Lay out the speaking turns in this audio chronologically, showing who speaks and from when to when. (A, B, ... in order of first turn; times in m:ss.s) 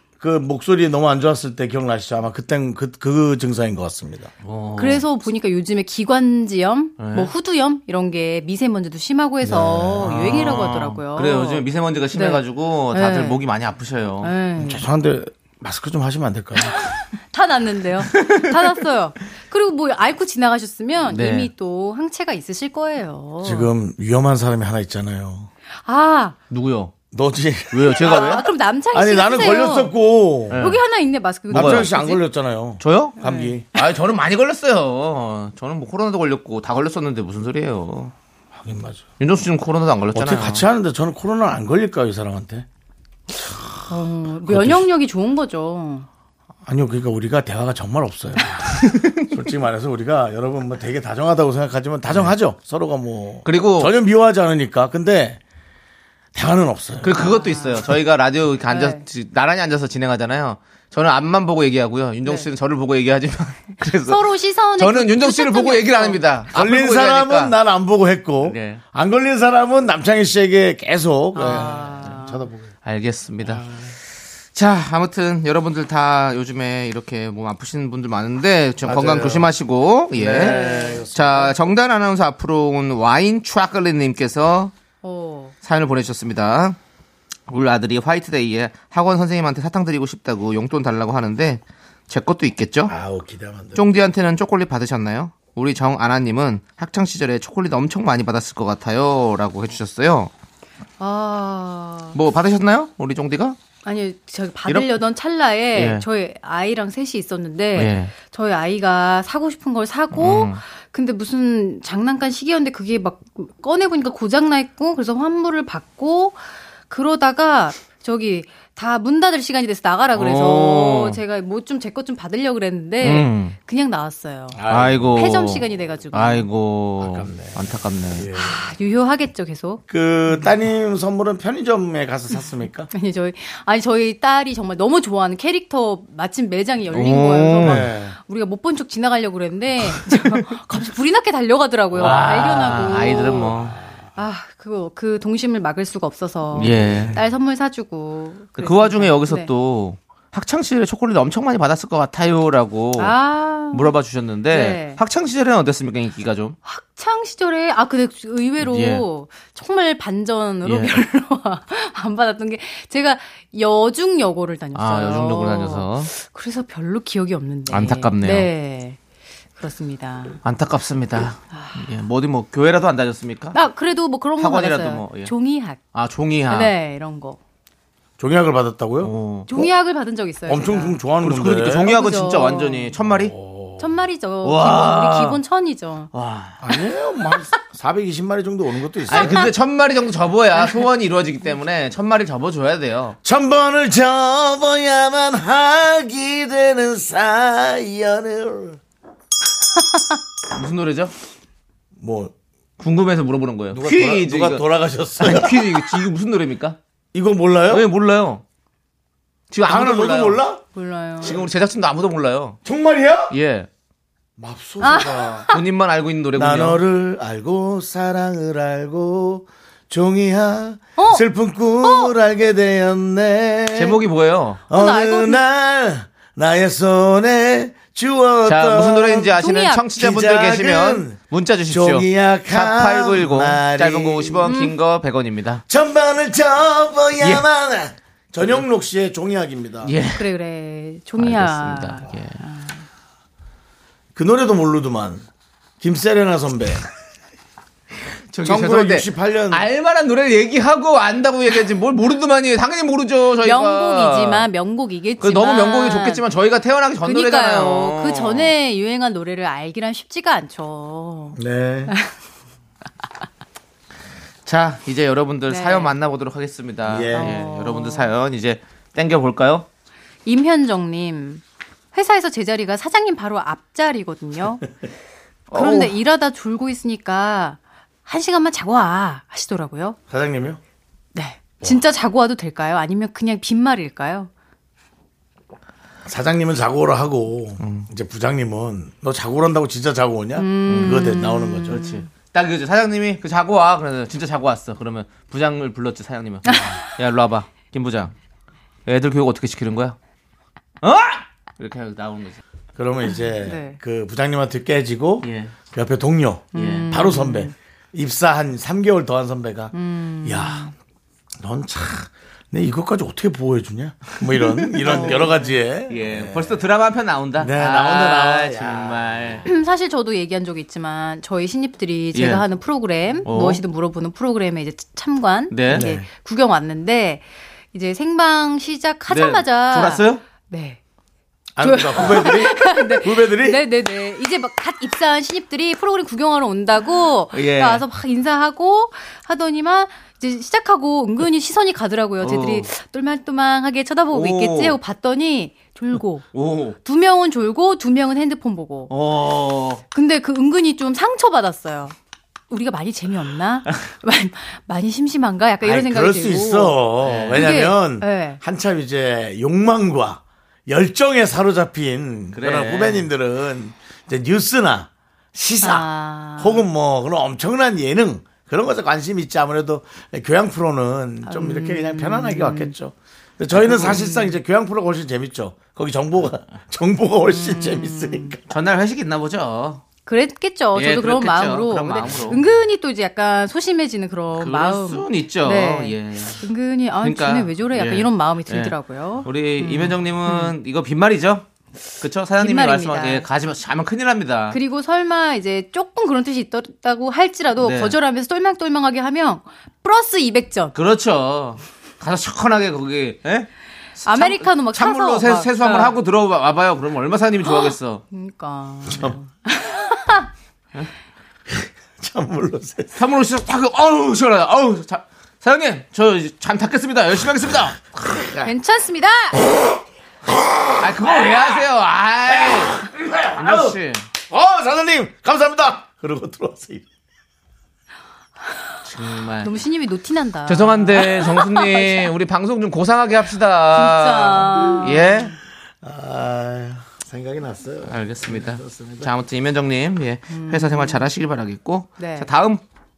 0:00.2-0:04.3 A
0:04.4-0:05.0 B
0:04.8-0:13.4 C
0:07.0-0:07.3 B
0:09.4-0:10.2 A
0:10.0-0:14.3 B
0:14.2-0:14.8 C
0:14.6-0:16.9 A
0:16.7-0:23.7 C
0:18.1-0:18.5 B
0:21.1-0:21.5 B
0:23.4-0:25.5 A
0:25.8-0:26.4 C
0:26.5-0:26.9 B
0:27.1-0:30.6 A
0:27.7-0:28.5 B
0:27.9-0:29.9 C
0:30.5-0:30.8 B
0:30.6-0:32.2 C
0:31.5-0:31.9 B
0:31.5-0:33.6 A
0:32.8-0:33.2 B
0:33.2-0:33.6 C
0:33.7-0:38.1 B
0:38.6-0:39.1 A
0:39.2-0:40.7 B
0:40.1-0:42.7 A
0:43.9-0:46.1 C
0:44.5-0:44.8 A
0:46.7-0:55.4 A
0:48.8-0:49.3 B
0:53.4-0:53.9 B
0:56.3-0:57.2 A
0:57.0-1:07.6 B
0:57.1-0:57.9 C
0:58.7-0:59.0 C
1:04.0-1:06.2 C
1:06.5-1:12.7 A
1:08.4-1:08.8 B
1:11.4-1:12.4 C
1:12.8-1:13.7 B
1:13.4-1:13.9 A
1:14.5-1:24.7 B
1:18.8-1:19.5 A
1:20.1-1:21.6 A
1:20.3-1:21.0 C
1:25.0-1:25.5 C
1:25.6-1:26.8 B
1:27.5-1:33.0 B
1:32.9-1:33.8 A
1:33.8-1:40.3 B
1:41.0-1:42.2 C
1:42.1-1:43.6 B
1:43.8-2:06.5 C
1:45.7-1:46.1 B
1:47.8-1:48.1 B
1:50.1-1:50.6 B
2:00.1-2:01.2 B
2:03.0-2:03.6 B
2:04.5-2:05.1 A
2:04.7-2:08.3 B
2:07.0-2:07.6 A
2:08.2-2:08.6 A
2:08.3-2:10.5 C
2:09.9-2:12.9 A
2:12.9-2:23.6 C
2:16.9-2:17.9 B
2:17.6-2:18.2 A
2:21.9-2:22.3 A
2:22.0-2:23.8 B
2:24.2-2:29.5 C
2:26.5-2:27.2 B
2:26.6-2:27.2 A
2:28.6-2:33.2 B
2:33.0-2:33.9 C
2:33.7-2:36.6 B
2:34.5-2:35.0 C
2:36.6-2:49.0 C
2:38.6-2:39.0 B
2:40.6-2:41.0 B
2:44.8-2:46.1 B
2:47.7-2:48.5 B
2:49.6-2:50.4 C
2:50.4-2:53.6 B
2:51.5-2:51.9 C
2:53.5-2:55.8 C
2:54.4-2:55.3 B
2:55.9-2:56.7 B
2:56.5-2:57.4 C
2:58.2-2:59.7 A
2:59.0-2:59.5 B
2:59.5-3:01.0 C
3:00.5-3:01.9 A
3:01.2-3:03.3 B
3:01.8-3:02.9 C
3:03.1-3:03.9 A
3:03.8-3:06.1 C
3:04.4-3:05.4 B
3:06.1-3:06.8 B
3:06.6-3:09.5 A
3:09.1-3:09.5 C
3:09.1-3:13.2 B
3:10.6-3:10.8 C
3:13.2-3:18.8 A
3:20.5-3:21.1 B
3:22.0-3:22.3 A
3:22.8-3:24.6 B
3:23.7-3:25.8 A
3:25.2-3:26.8 B
3:27.1-3:27.9 A
3:27.7-3:28.4 B
3:29.5-3:30.4 B
3:29.7-3:30.6 A
3:30.7-3:31.4 C
3:31.2-3:32.6 B
3:32.6-3:33.4 A
3:33.3-3:33.7 B
3:34.4-3:35.5 A
3:34.8-3:35.6 C
3:35.5-3:36.8 B
3:36.4-3:44.0 A
3:41.0-3:41.2 C
3:41.8-3:42.1 C
3:43.8-3:44.6 B
3:44.7-3:49.3 A
3:44.7-3:45.4 C
3:48.5-3:55.6 B
3:49.4-3:49.9 C
3:50.0-3:54.5 A
3:54.4-3:54.8 C
3:55.7-3:59.9 A
3:57.2-3:57.5 B
3:59.8-4:00.3 B
4:00.2-4:02.8 C
4:01.2-4:02.4 B
4:04.2-4:05.2 A
4:05.8-4:06.8 A
4:08.3-4:14.5 B
4:08.4-4:09.7 A
4:13.4-4:16.2 C
4:15.2-4:18.5 B
4:17.0-4:21.4 C
4:21.4-4:22.0 A
4:24.5-4:29.7 B
4:25.5-4:25.9 C
4:26.9-4:27.3 A
4:27.1-4:28.1 C
4:30.3-4:34.7 C
4:35.5-4:36.0 B
4:35.5-4:40.0 C
4:40.1-4:40.6 A
4:41.2-4:44.3 C
4:46.1-4:51.8 A
4:47.6-4:47.9 B
4:50.4-4:52.1 C
4:50.6-4:51.0 B
4:51.7-4:58.1 B
4:56.5-4:56.8 C
4:58.9-5:00.0 B
5:00.8-5:02.4 B
5:02.8-5:10.7 A
5:03.4-5:03.8 C
5:05.2-5:05.5 B
5:06.5-5:06.9 B
5:06.5-5:07.5 C
5:09.7-5:10.7 C
5:11.4-5:16.6 A
5:14.3-5:19.5 B
5:14.8-5:15.4 C
5:17.4-5:19.4 A
5:19.5-5:30.8 C
5:22.1-5:22.4 B
5:23.2-5:23.6 B
5:25.5-5:25.9 B
5:25.7-5:26.1 A
5:29.1-5:30.2 B
5:31.6-5:33.6 A
5:31.6-5:48.9 C
5:37.3-5:37.8 B
5:42.2-5:42.7 B
5:44.1-5:44.8 B
5:46.3-5:46.8 B
5:48.9-5:49.8 B
5:49.9-5:52.0 C
5:52.5-5:58.4 C
5:55.6-6:18.4 A
5:57.0-5:57.5 B
6:02.3-6:03.1 B
6:05.6-6:06.7 C
6:11.3-6:12.7 C
6:13.5-6:14.1 B
6:17.3-6:18.4 C
6:18.5-6:19.8 B
6:20.1-6:30.5 C
6:20.8-6:22.4 B
6:24.4-6:26.4 B
6:27.0-6:31.5 B
6:32.0-6:34.6 B
6:32.4-6:33.3 C
6:34.5-6:40.8 C
6:37.6-6:38.0 B
6:40.8-6:48.0 B
6:44.0-6:46.0 C
6:47.4-6:50.3 C
6:51.5-6:53.0 A
6:53.0-6:58.5 B
6:58.4-6:59.4 C
7:00.3-7:01.4 A
7:00.8-7:04.1 B
7:02.3-7:06.9 A
7:08.8-7:09.5 B
7:09.4-7:12.1 C
7:10.5-7:15.4 B
7:13.7-7:15.3 C
7:15.8-7:19.1 A
7:17.8-7:22.6 B
7:20.3-7:21.0 C
7:22.0-7:22.3 C